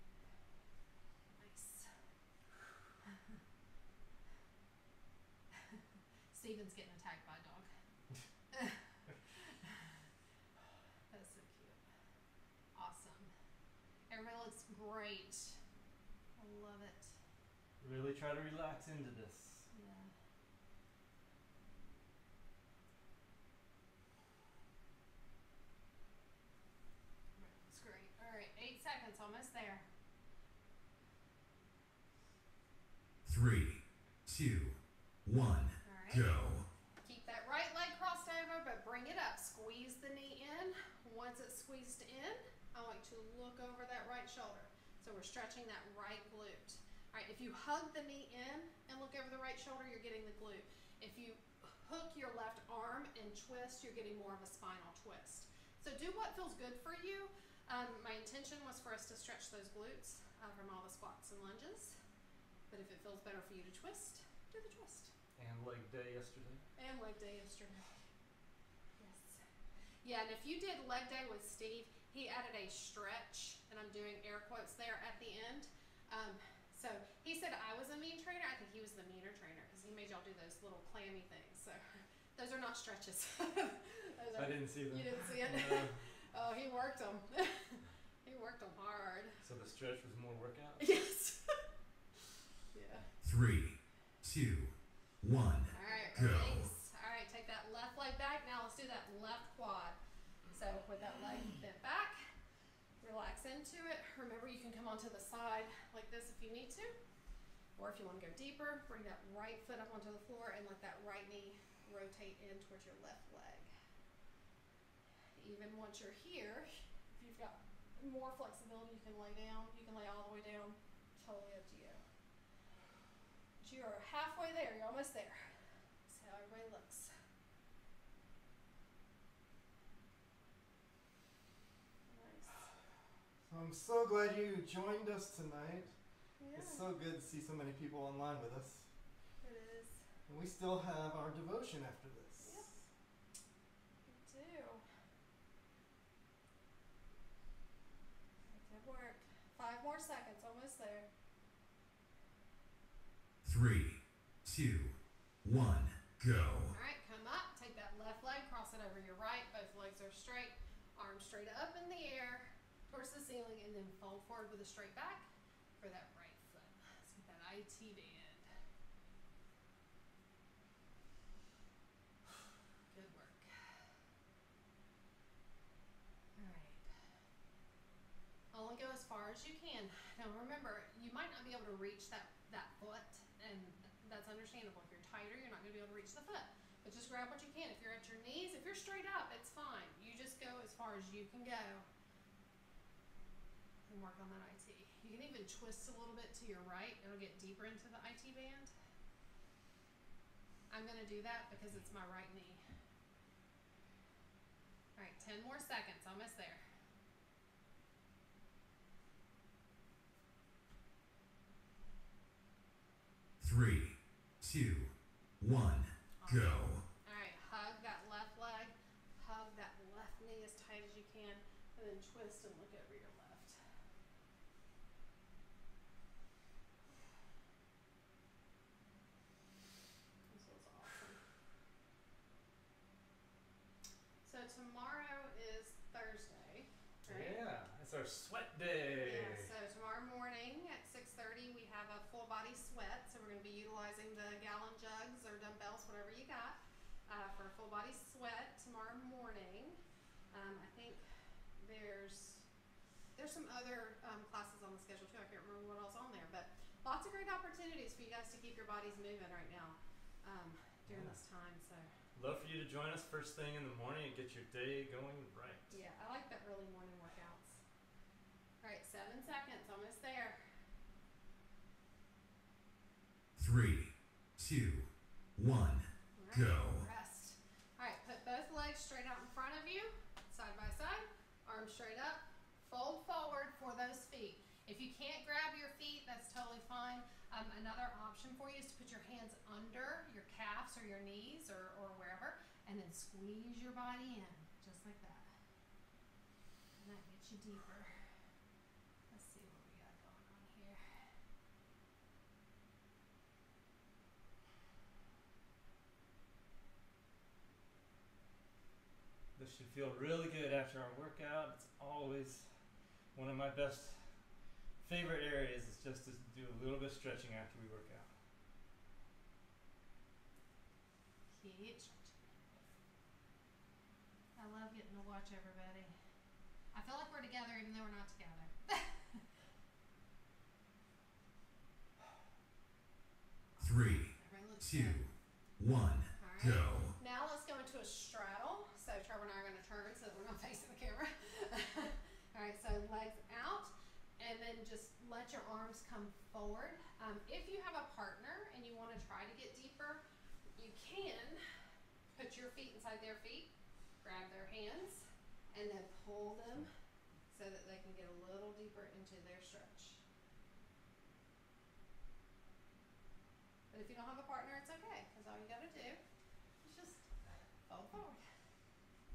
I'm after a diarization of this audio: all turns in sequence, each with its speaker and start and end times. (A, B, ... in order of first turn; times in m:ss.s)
0:01.4-0:01.9 A
0:03.1-0:03.4 A
0:05.5-0:05.8 A
0:06.3-0:07.7 A
0:08.5-0:10.0 A
0:11.1-0:11.8 A
0:12.8-0:13.3 A
0:14.1-0:15.6 A
0:16.4-0:17.2 A
0:17.8-0:19.7 B
0:19.7-0:20.1 A
0:27.4-0:29.9 A
0:33.2-0:36.7 C
0:35.8-0:36.3 A
0:37.0-1:02.0 A
1:02.7-1:05.1 A
1:05.4-1:06.6 B
1:06.8-1:07.9 A
1:09.0-1:09.4 A
1:10.0-1:29.4 A
1:24.4-1:26.0 B
1:29.4-1:30.8 B
1:30.8-1:31.6 A
1:32.7-1:33.1 A
1:33.2-1:36.7 C
1:35.7-1:40.0 A
1:40.5-1:42.2 A
1:43.0-1:47.0 A
1:47.8-1:53.7 A
1:55.4-2:02.0 A
2:03.6-2:05.5 A
2:06.1-2:07.1 A
2:12.1-2:12.7 A
2:13.5-2:15.9 B
2:16.4-2:16.8 A
2:16.6-2:18.9 B
2:19.4-2:20.0 A
2:20.3-2:22.6 B
2:22.4-2:22.7 A
2:24.1-2:24.8 A
2:28.5-2:31.1 A
2:33.4-2:36.8 C
2:36.7-2:45.3 A
2:45.8-2:48.5 A
2:52.9-2:53.5 A
2:56.4-2:56.9 A
2:58.5-3:11.9 A
3:13.9-3:18.7 A
3:20.7-3:22.6 A
3:25.0-3:26.6 A
3:33.4-3:36.8 C
3:36.2-3:43.6 A
3:50.3-3:51.2 A
3:54.2-3:57.4 A
3:57.1-3:59.5 B
3:59.0-4:09.8 A
4:10.3-4:11.0 A
4:11.6-4:12.5 A
4:13.2-4:21.9 A
4:20.9-4:21.2 B
4:22.2-4:25.7 B
4:25.7-4:27.6 A
4:28.6-4:30.4 A
4:33.4-4:36.9 C
4:36.2-4:55.3 A
4:56.8-4:57.9 A
4:59.1-5:01.1 A
5:09.4-5:12.5 B
5:13.2-5:14.0 B
5:14.8-5:18.1 B
5:21.3-5:22.2 A
5:24.4-5:25.9 A
5:26.7-5:29.2 A
5:33.6-5:35.1 A
5:33.6-5:36.9 C
5:36.2-5:50.0 A
5:50.6-5:51.4 A
5:52.2-5:56.7 A
5:57.3-6:00.0 A
6:03.7-6:06.0 A
6:06.6-6:07.1 A
6:07.7-6:08.2 A